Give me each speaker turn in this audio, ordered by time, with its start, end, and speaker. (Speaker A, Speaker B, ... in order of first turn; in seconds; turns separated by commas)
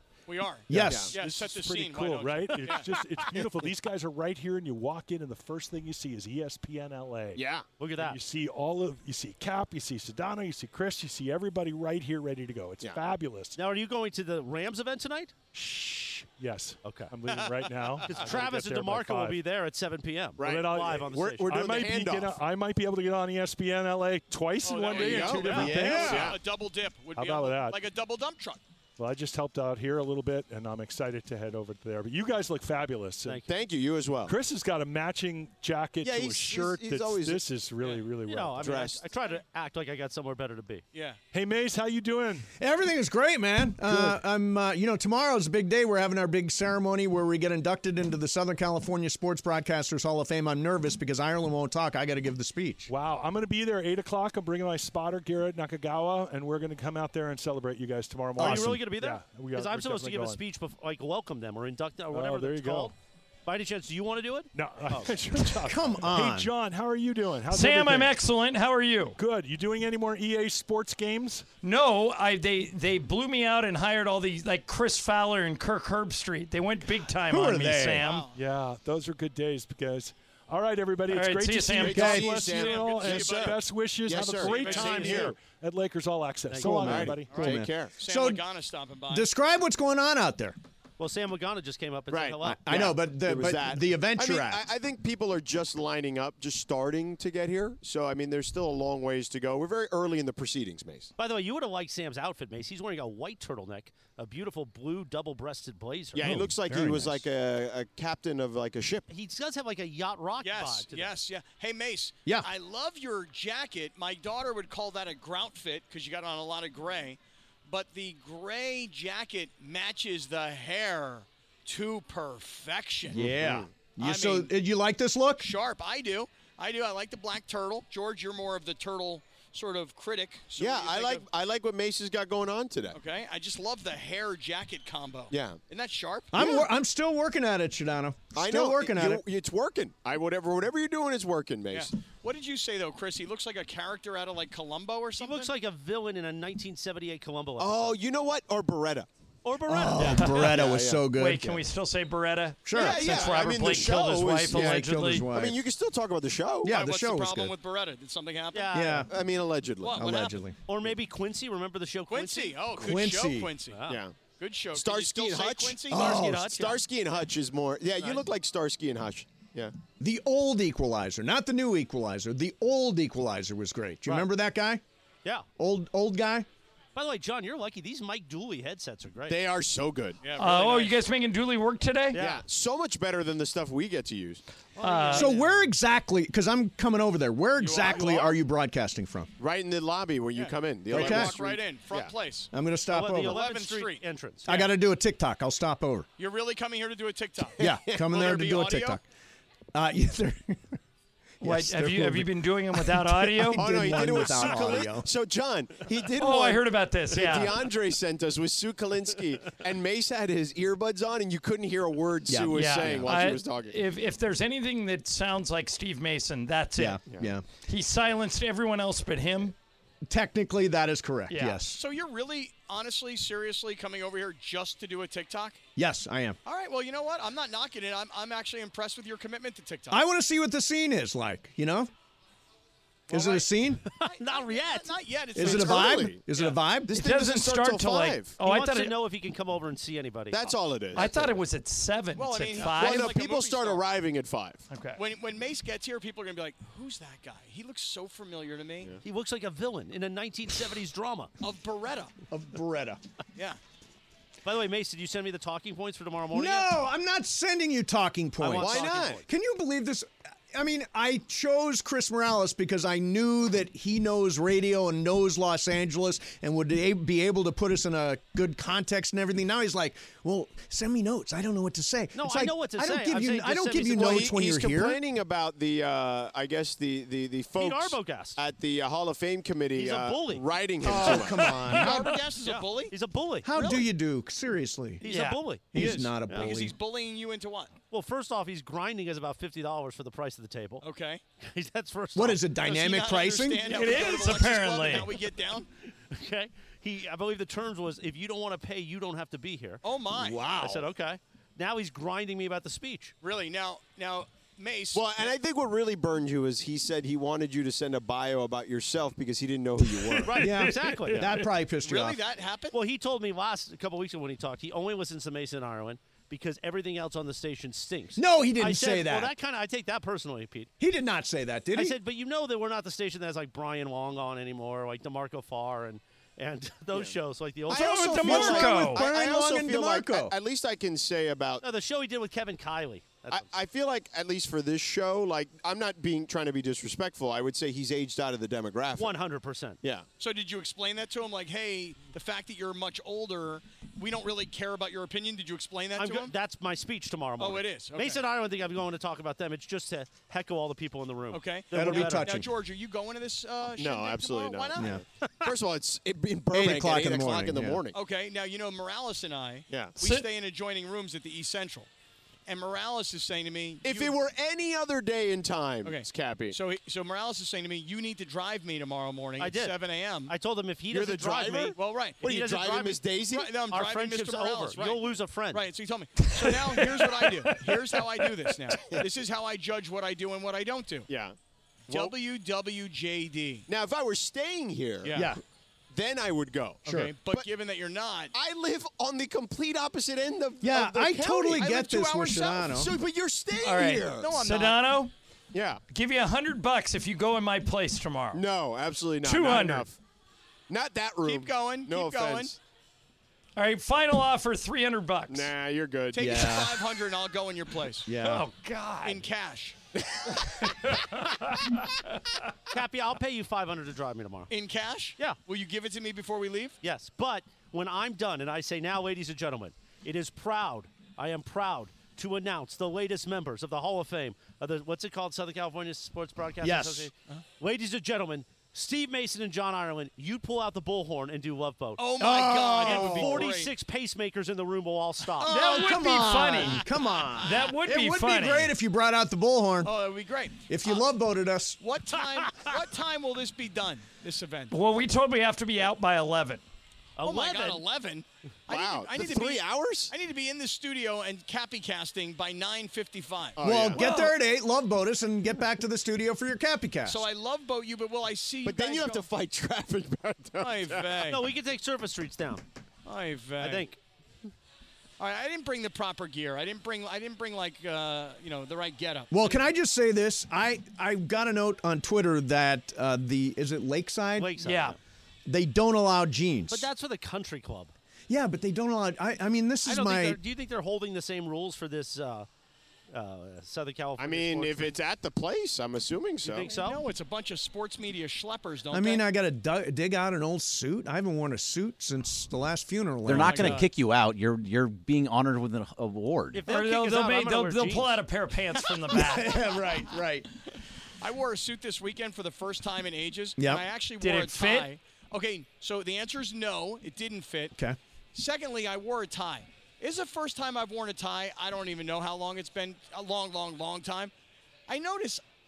Speaker A: 0.3-3.0, Speaker B: 0.7-1.1, Speaker C: 0.7-1.1, Speaker D: 1.1-13.6, Speaker E: 2.6-2.8, Speaker C: 7.3-7.7, Speaker E: 7.8-8.2, Speaker E: 13.5-15.3, Speaker D: 15.5-19.4, Speaker E: 16.8-17.1, Speaker A: 17.3-18.4, Speaker E: 18.1-21.5, Speaker C: 20.4-22.4, Speaker D: 20.4-26.1, Speaker A: 24.6-28.6, Speaker C: 24.9-26.4, Speaker B: 25.5-26.3, Speaker D: 27.1-27.8, Speaker D: 29.0-33.4, Speaker C: 33.4-34.3, Speaker D: 34.2-38.7, Speaker C: 36.0-37.5, Speaker A: 37.8-38.0, Speaker E: 38.2-40.8, Speaker C: 38.6-39.0, Speaker A: 40.9-41.2, Speaker D: 41.3-42.5, Speaker B: 42.6-52.9, Speaker D: 52.9-60.4, Speaker B: 58.4-58.8, Speaker E: 58.4-62.9, Speaker D: 62.1-62.9, Speaker E: 63.5-65.2, Speaker D: 64.5-68.2, Speaker B: 65.5-66.5, Speaker F: 67.5-69.2, Speaker D: 69.2-71.5, Speaker F: 71.6-78.2, Speaker B: 77.2-78.0, Speaker A: 78.0-78.3, Speaker D: 78.3-87.4, Speaker F: 81.1-82.5, Speaker C: 81.8-85.3, Speaker A: 82.3-85.2, Speaker E: 84.7-85.3, Speaker E: 86.5-87.1, Speaker B: 86.6-88.4, Speaker C: 86.8-88.0, Speaker A: 87.3-89.3, Speaker B: 89.1-90.6, Speaker E: 91.0-92.7, Speaker C: 92.1-101.1, Speaker B: 92.4-94.7, Speaker E: 101.2-106.5, Speaker C: 106.1-109.0, Speaker B: 106.2-107.2, Speaker E: 109.1-111.2, Speaker A: 110.4-123.3, Speaker B: 123.1-125.5, Speaker C: 123.1-123.7, Speaker A: 124.0-124.5, Speaker A: 125.4-131.3, Speaker C: 130.6-133.0, Speaker A: 132.9-136.5, Speaker C: 135.3-135.6, Speaker B: 136.3-139.2, Speaker C: 136.4-136.6, Speaker C: 138.3-141.9, Speaker A: 141.7-145.5, Speaker E: 145.2-148.0, Speaker C: 147.6-149.1, Speaker E: 149.4-150.6, Speaker B: 149.7-151.6, Speaker F: 150.1-150.5, Speaker C: 150.3-151.5, Speaker F: 151.1-155.3, Speaker B: 152.6-153.4, Speaker C: 152.7-156.8, Speaker B: 154.5-155.6, Speaker B: 156.6-157.5, Speaker A: 156.7-159.0, Speaker E: 158.5-159.1, Speaker B: 158.7-159.1, Speaker C: 159.1-160.1, Speaker A: 159.8-160.4, Speaker B: 159.9-160.6, Speaker E: 160.7-162.7, Speaker A: 162.1-166.4, Speaker B: 162.7-163.5, Speaker E: 163.7-164.0, Speaker C: 163.9-164.2, Speaker C: 164.7-169.7, Speaker B: 165.9-166.8, Speaker E: 166.0-166.7, Speaker B: 170.0-174.8, Speaker B: 175.6-176.5, Speaker E: 176.9-179.4, Speaker C: 179.3-180.2, Speaker A: 180.2-180.9, Speaker F: 180.4-182.2, Speaker E: 182.1-182.4, Speaker C: 182.2-184.4, Speaker A: 184.8-185.3, Speaker E: 184.8-185.7, Speaker F: 184.8-185.3, Speaker B: 185.1-189.3, Speaker A: 187.6-188.3, Speaker C: 189.4-192.1, Speaker A: 190.3-192.5, Speaker B: 190.9-191.4, Speaker B: 192.5-193.4, Speaker E: 192.9-194.7, Speaker A: 193.2-194.7, Speaker B: 194.4-196.1, Speaker A: 196.2-199.0, Speaker C: 197.6-198.2, Speaker B: 197.6-199.0, Speaker B: 199.7-200.8, Speaker B: 201.4-205.1, Speaker F: 201.4-203.8, Speaker C: 203.6-213.8, Speaker F: 206.2-207.5, Speaker B: 212.3-213.1, Speaker F: 212.5-217.0, Speaker B: 216.8-217.4, Speaker C: 217.1-217.3, Speaker F: 217.7-219.5, Speaker B: 220.1-221.8, Speaker F: 221.3-221.6, Speaker A: 221.7-225.6, Speaker B: 225.8-226.4, Speaker A: 226.4-230.0, Speaker B: 229.9-231.9, Speaker A: 233.1-233.5, Speaker B: 233.1-233.8, Speaker E: 233.9-235.0, Speaker A: 234.0-236.6, Speaker C: 235.3-236.2, Speaker B: 235.3-237.0, Speaker C: 236.9-238.4, Speaker F: 236.9-238.9, Speaker E: 238.4-240.6, Speaker C: 240.3-241.3, Speaker F: 240.9-243.1, Speaker A: 242.2-243.8, Speaker C: 242.6-244.6, Speaker F: 244.7-245.0, Speaker A: 244.9-248.9, Speaker E: 249.0-251.3, Speaker A: 251.4-252.1, Speaker B: 252.3-253.0, Speaker E: 254.4-256.8, Speaker B: 256.3-275.0, Speaker E: 258.4-259.2, Speaker C: 258.5-259.2, Speaker E: 272.1-274.3, Speaker C: 273.9-281.6, Speaker E: 277.6-278.4, Speaker E: 279.7-280.5, Speaker B: 280.8-282.2, Speaker A: 281.5-282.9, Speaker E: 281.8-283.8, Speaker B: 283.4-285.0, Speaker E: 285.0-286.5, Speaker F: 285.0-285.4, Speaker B: 285.7-286.8, Speaker A: 285.7-287.7, Speaker E: 287.9-290.8, Speaker A: 290.8-291.2, Speaker E: 291.4-292.5, Speaker B: 292.1-293.7, Speaker A: 292.6-295.7, Speaker F: 293.6-295.1, Speaker E: 296.1-299.8, Speaker A: 299.8-300.5, Speaker B: 300.1-300.9, Speaker E: 300.5-303.1, Speaker A: 303.2-305.3, Speaker C: 304.9-310.4, Speaker E: 310.2-311.5, Speaker B: 310.3-312.2, Speaker A: 311.8-312.8, Speaker E: 312.7-320.7, Speaker B: 318.1-319.4, Speaker B: 320.8-322.0, Speaker E: 321.7-328.4, Speaker C: 327.7-331.6, Speaker F: 327.7-329.1, Speaker B: 327.9-330.3, Speaker E: 331.6-333.6, Speaker C: 333.3-339.2, Speaker E: 339.0-339.8, Speaker A: 340.2-346.3, Speaker E: 345.9-352.4, Speaker A: 347.4-348.2, Speaker A: 351.3-354.9, Speaker B: 351.7-352.5, Speaker C: 353.8-358.0, Speaker B: 354.8-355.0, Speaker E: 355.2-355.5, Speaker B: 356.5-357.8, Speaker A: 357.9-361.9, Speaker C: 359.7-360.0, Speaker F: 360.0-360.3, Speaker A: 362.4-364.2, Speaker C: 363.8-366.6, Speaker A: 365.8-370.3, Speaker E: 369.4-375.7, Speaker C: 370.9-373.6, Speaker A: 371.8-372.2, Speaker A: 373.2-381.1, Speaker C: 378.8-379.0, Speaker C: 381.1-381.4, Speaker C: 381.9-382.1, Speaker A: 381.9-383.7, Speaker C: 383.7-385.3, Speaker A: 385.0-385.3, Speaker B: 385.1-385.4, Speaker C: 385.9-387.4, Speaker A: 386.8-388.3, Speaker B: 386.9-387.1, Speaker C: 388.3-394.4, Speaker B: 390.6-392.9, Speaker A: 391.5-392.7, Speaker F: 393.6-395.1, Speaker A: 394.2-394.8, Speaker C: 395.5-395.8, Speaker F: 395.9-398.4, Speaker C: 398.3-400.0, Speaker F: 399.2-399.9, Speaker C: 400.7-402.6, Speaker A: 401.2-402.5, Speaker F: 403.6-405.5, Speaker C: 405.3-406.5, Speaker A: 406.1-408.1, Speaker B: 406.2-406.9, Speaker B: 408.1-408.5, Speaker F: 408.2-409.2, Speaker A: 409.0-409.8, Speaker C: 410.0-410.9, Speaker E: 412.7-414.6, Speaker A: 414.5-416.8, Speaker E: 416.8-432.1, Speaker B: 426.6-427.1, Speaker A: 432.0-433.7, Speaker B: 432.2-433.5, Speaker E: 432.8-435.5, Speaker B: 435.4-439.9, Speaker A: 435.4-435.8, Speaker F: 435.4-436.9, Speaker A: 436.7-437.6, Speaker F: 437.4-438.7, Speaker A: 439.8-441.1, Speaker B: 440.7-441.8, Speaker A: 441.8-444.7, Speaker E: 442.2-442.7, Speaker F: 444.7-446.6, Speaker E: 447.2-447.8, Speaker A: 447.2-453.6, Speaker C: 448.7-450.1, Speaker C: 453.6-454.0, Speaker B: 453.6-457.2, Speaker F: 454.0-454.3, Speaker A: 457.0-459.3, Speaker C: 458.6-461.3, Speaker A: 460.6-461.5, Speaker E: 461.2-462.6, Speaker A: 463.0-463.9, Speaker E: 463.6-464.0, Speaker A: 465.2-469.6, Speaker B: 469.3-474.5, Speaker E: 474.4-475.0, Speaker F: 474.6-475.0, Speaker B: 475.5-476.9, Speaker E: 476.7-477.9, Speaker B: 478.3-480.4, Speaker E: 479.8-482.5, Speaker E: 483.1-484.9, Speaker C: 484.2-486.7, Speaker E: 486.4-487.0, Speaker A: 486.5-489.2, Speaker B: 488.9-493.8, Speaker G: 493.3-496.6, Speaker A: 493.4-493.9, Speaker E: 496.5-498.2, Speaker F: 496.7-499.6, Speaker B: 499.1-500.5, Speaker A: 501.2-507.7, Speaker B: 503.6-503.8, Speaker F: 504.2-504.9, Speaker A: 508.3-514.3, Speaker A: 514.9-515.4